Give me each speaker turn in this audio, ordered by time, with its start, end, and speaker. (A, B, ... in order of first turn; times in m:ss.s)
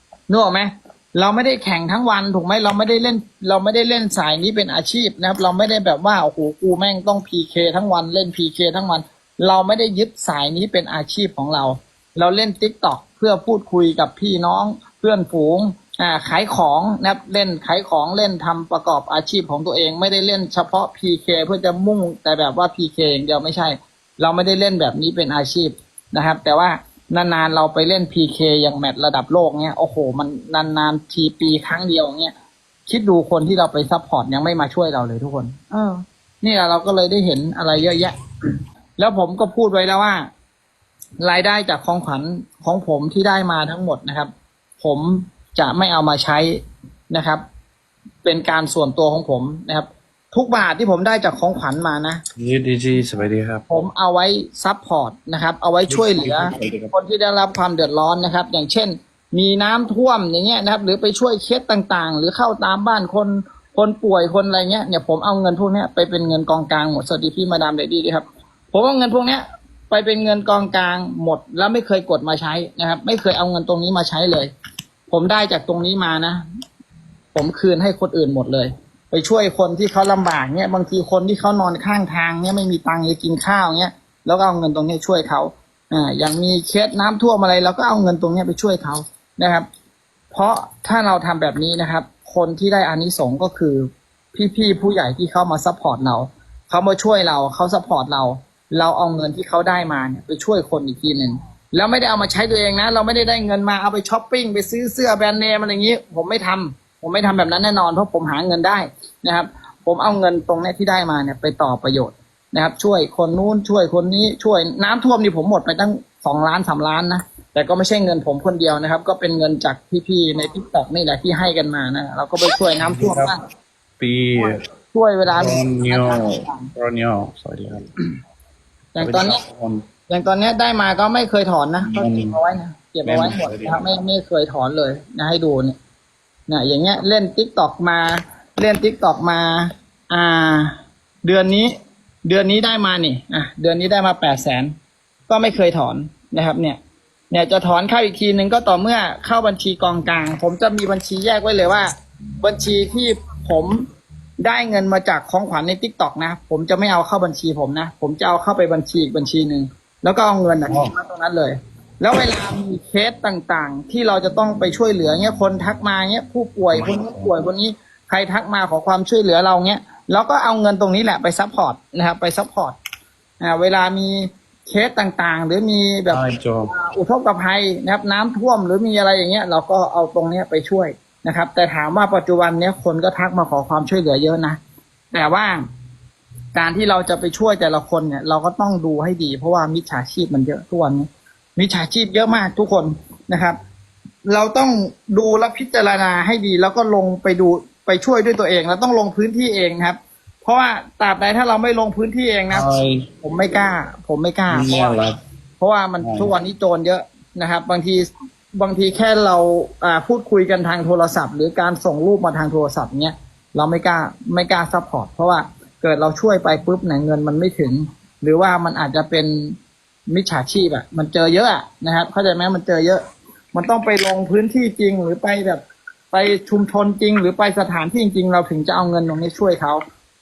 0:00.3-0:32.3 A
0:32.9-0:38.2 A
0:39.0-0:40.3 A
0:41.2-0:47.4 A
0:48.2-0:52.2 A
0:52.4-0:53.6 B
0:53.7-1:14.5 A
0:55.9-0:56.9 B
1:15.1-1:16.4 A
1:17.3-1:29.7 A
1:30.3-2:03.4 A
2:02.8-2:03.3 B
2:04.0-2:04.6 B
2:04.9-2:06.7 A
2:05.3-2:07.9 B
2:08.9-2:09.4 A
2:09.0-2:09.8 B
2:10.1-2:15.8 A
2:11.8-2:12.4 B
2:13.0-2:13.8 B
2:16.5-2:24.7 A
2:25.3-2:26.8 A
2:27.3-2:33.8 A
2:34.4-2:52.8 A
2:40.7-2:40.9 B
2:46.7-2:47.4 B
2:53.4-3:04.6 A
2:56.1-2:56.7 B
3:05.1-3:05.6 A
3:06.5-3:13.6 A
3:14.3-3:22.6 A
3:22.5-3:23.1 B
3:23.2-3:25.0 A
3:24.5-3:25.2 B
3:25.6-3:39.6 A
3:26.0-3:26.3 B
3:40.1-3:43.0 A
3:43.5-3:49.8 A